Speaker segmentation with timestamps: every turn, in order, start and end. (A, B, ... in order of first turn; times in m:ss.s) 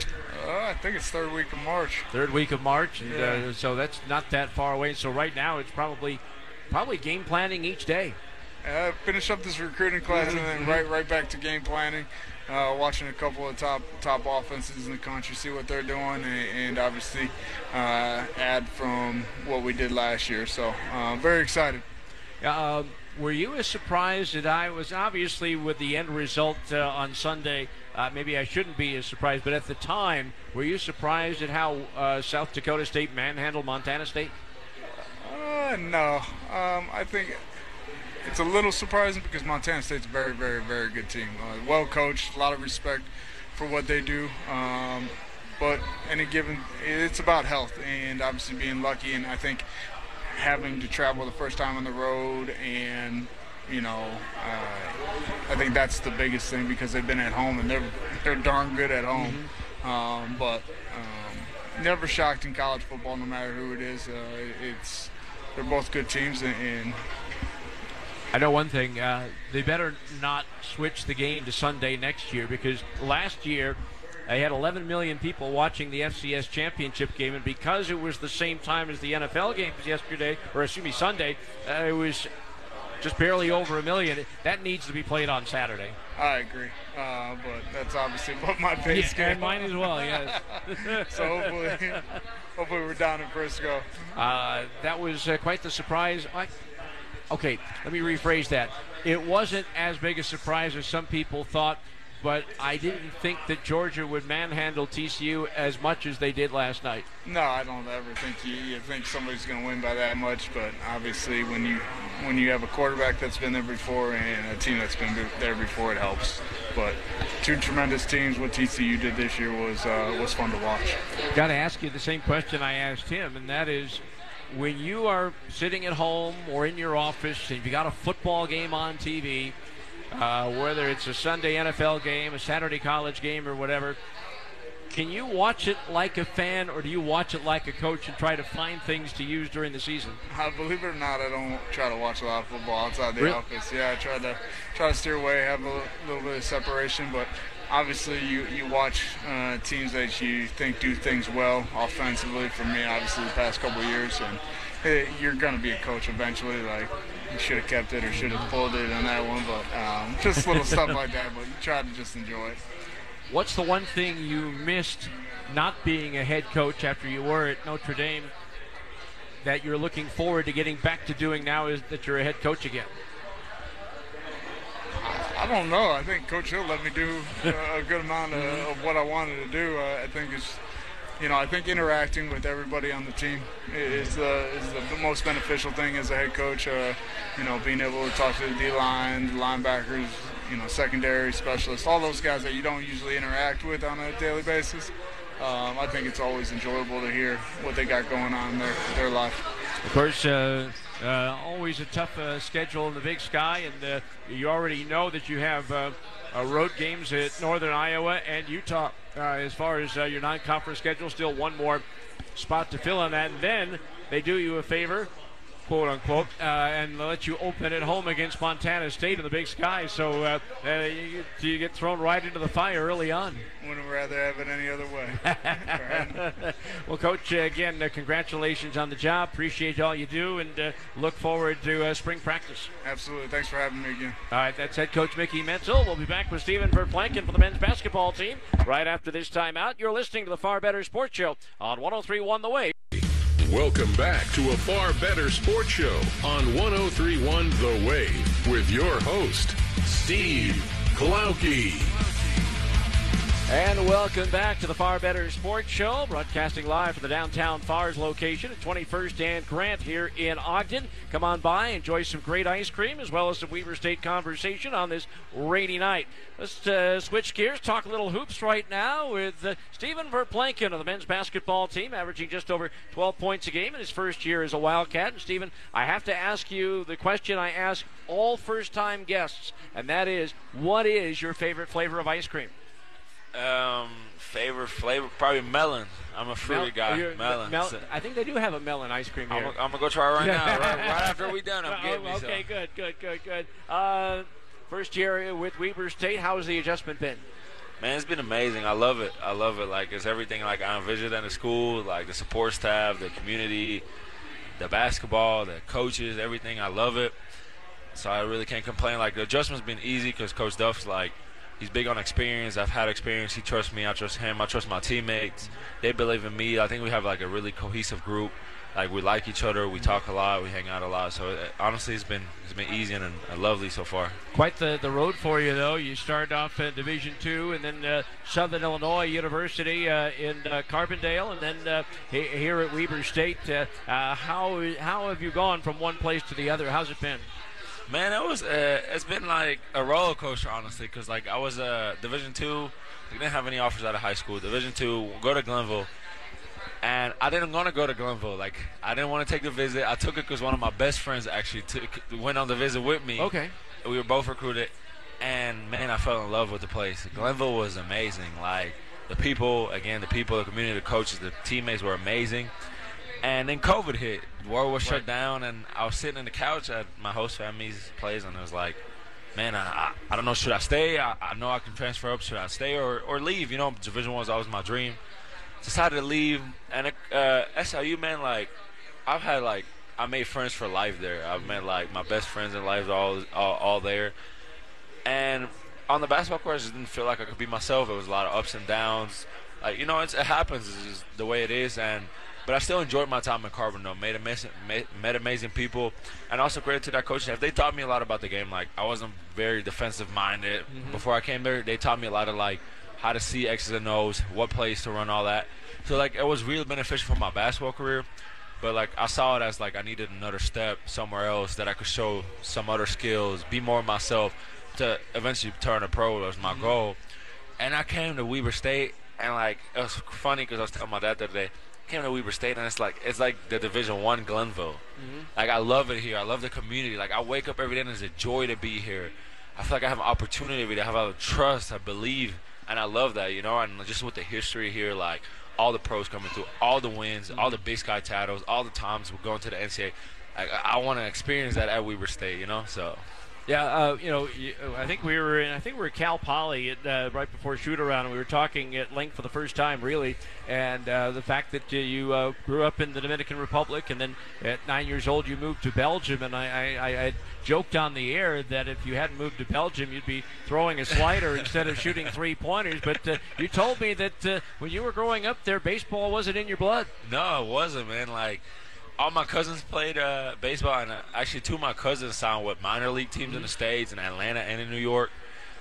0:00.3-0:02.1 A
0:02.1-0:08.2 B
0:03.0-0:03.5 A
0:08.6-0:21.8 A
0:10.1-0:10.8 B
0:22.4-0:34.3 B
0:35.0-0:37.4 A
0:38.2-0:49.6 A
0:50.3-1:07.0 A
0:59.1-0:59.5 B
1:08.3-1:22.3 B
1:23.0-1:26.0 B
1:26.2-1:34.1 A
1:28.9-1:32.1 B
1:34.1-1:36.6 B
1:37.3-1:47.1 B
1:47.3-2:01.0 A
2:01.3-2:09.6 B
2:10.1-2:14.0 B
2:14.9-2:20.2 B
2:20.3-2:42.6 A
2:38.1-2:38.5 B
2:43.3-2:48.3 B
2:49.4-2:52.9 B
2:55.0-3:00.6 A
2:58.3-2:58.7 B
3:01.2-3:19.4 A
3:19.8-3:31.8 B
3:32.4-3:35.1 B
3:35.6-3:43.5 B
3:43.6-3:46.4 A
3:45.2-3:52.7 B
3:52.8-3:54.2 A
3:54.3-4:02.7 B
4:02.9-4:12.0 C
4:13.5-4:42.5 B
4:43.3-4:47.8 D
4:46.4-4:49.6 B
4:49.3-4:52.5 D
4:50.2-4:57.3 B
4:57.8-5:03.8 D
5:04.6-5:07.2 D
5:07.9-5:24.2 D
5:24.3-5:37.3 B
5:37.9-5:45.9 D
5:46.8-6:02.5 D
5:53.2-5:53.5 B
6:03.2-6:08.8 D
6:09.4-6:15.0 D
6:15.6-6:18.5 D
6:19.1-6:24.1 D
6:25.1-6:48.0 D
6:40.7-6:41.0 B
6:48.6-6:57.0 D
6:56.4-6:56.7 B
6:57.6-7:04.8 D
7:05.0-7:05.3 B
7:05.4-7:23.0 D
7:17.3-7:17.6 B
7:23.5-7:46.9 B
7:47.0-7:48.4 D
7:49.0-7:55.1 D